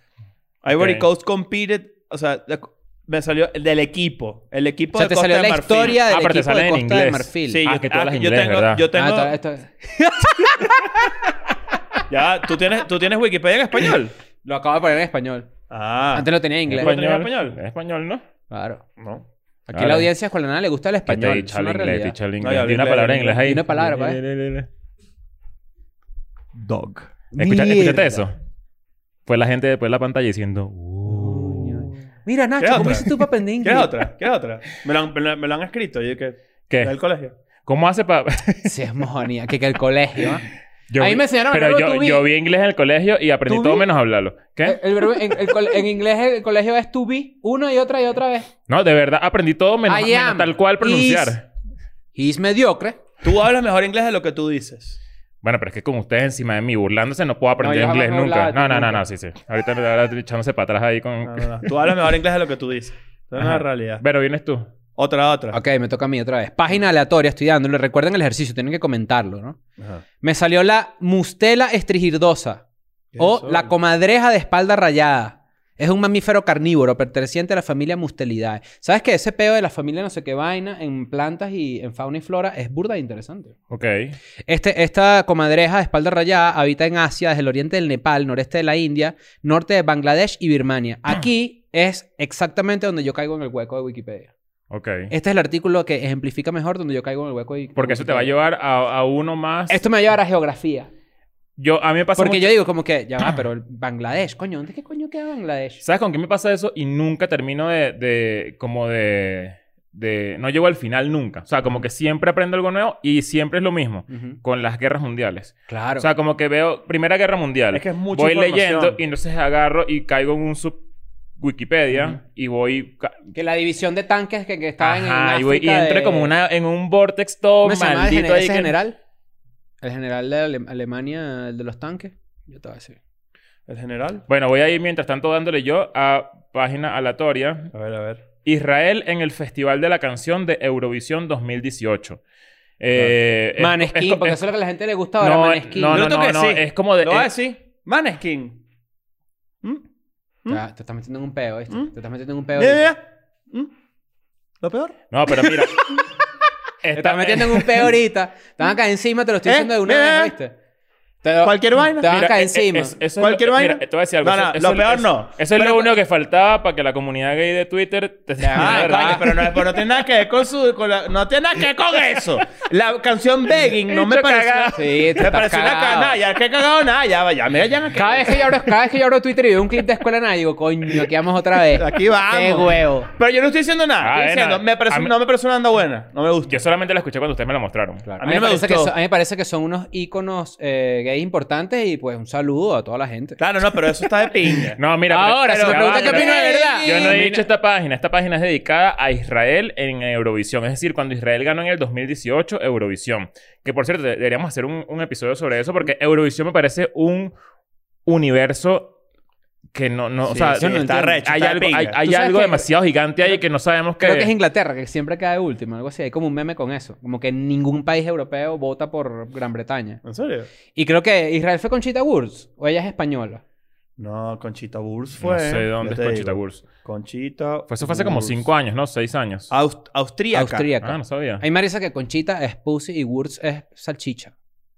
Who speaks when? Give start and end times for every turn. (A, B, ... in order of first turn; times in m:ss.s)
0:00.6-0:06.0 A
0:00.7-0:01.1 B
0:04.9-0:07.6 C
0:06.0-0:08.9 B
0:07.5-0:09.3 A
0:08.9-0:11.0 C
0:12.1-0:14.1 A
0:14.4-0:15.5 C
0:15.7-0:17.6 A
0:16.1-0:16.9 C
0:16.7-0:18.2 B
0:18.5-0:18.8 C
0:19.0-0:19.2 A
0:19.7-0:22.2 C
0:19.7-0:20.1 B
0:21.1-0:24.7 B
0:22.4-0:23.5 A
0:23.4-0:24.2 C
0:26.5-0:27.1 A
0:27.3-0:28.3 C
0:27.4-0:28.3 B
0:29.3-0:31.8 B
0:31.1-0:31.9 A
0:31.3-0:34.0 C
0:32.6-0:37.3 A
0:36.7-0:37.0 B
0:37.6-0:38.8 B
0:38.6-0:40.4 C
0:40.9-0:45.5 B
0:41.0-0:42.2 C
0:43.5-0:43.9 C
0:44.6-0:48.5 C
0:48.7-0:51.4 B
0:49.9-0:51.4 C
0:52.2-0:53.0 C
0:53.2-0:55.0 A
0:55.4-1:01.7 B
0:57.6-0:59.0 C
1:01.2-1:04.0 A
1:03.5-1:04.7 B
1:05.0-1:05.6 A
1:05.5-1:09.6 C
1:09.8-1:10.0 A
1:10.2-1:12.6 C
1:13.1-1:13.7 A
1:13.2-1:23.6 C
1:23.7-1:24.2 B
1:24.5-1:34.3 C
1:34.7-1:35.1 B
1:35.1-1:38.3 C
1:37.8-1:39.8 B
1:39.7-1:40.9 C
1:41.6-1:42.6 B
1:42.2-1:45.8 C
1:45.8-2:00.8 B
1:54.1-1:54.4 C
1:55.7-1:56.1 C
1:57.7-1:59.0 A
2:01.4-2:03.3 B
2:01.9-2:02.2 C
2:03.4-2:06.3 C
2:04.8-2:08.8 B
2:07.6-2:09.0 C
2:09.8-2:13.0 C
2:13.7-2:14.2 A
2:14.3-2:17.7 B
2:17.7-2:18.2 A
2:18.4-2:22.2 B
2:22.8-2:24.4 B
2:23.6-2:26.0 C
2:25.2-2:27.3 B
2:25.9-2:28.6 A
2:30.5-2:32.9 C
2:32.6-2:33.7 A
2:34.6-2:35.0 A
2:35.1-2:35.9 B
2:36.8-2:37.9 B
2:37.0-2:40.5 C
2:39.4-2:40.3 A
2:41.2-2:43.0 C
2:41.4-2:42.1 A
2:42.0-2:49.5 B
2:43.2-2:45.9 A
2:48.4-2:49.3 C
2:48.6-2:58.6 A
2:53.6-2:54.9 B
2:54.7-2:56.2 C
2:57.9-3:03.1 C
3:01.6-3:06.6 A
3:04.0-3:05.1 B
3:06.5-3:08.0 B
3:08.1-3:13.8 C
3:08.2-3:08.9 A
3:13.4-3:14.8 A
3:14.8-3:27.3 B
3:15.1-3:17.4 C
3:15.5-3:17.3 A
3:28.1-3:29.0 B
3:29.7-3:34.3 B
3:30.3-3:32.0 A
3:30.3-3:31.3 C
3:32.0-3:32.7 C
3:34.0-3:40.0 C
3:40.0-3:40.5 A
3:40.7-3:43.4 C
3:44.0-3:48.5 A
3:45.2-3:46.6 B
3:47.7-3:49.5 B
3:49.5-3:50.7 A
3:50.3-3:54.3 C
3:50.8-3:51.4 B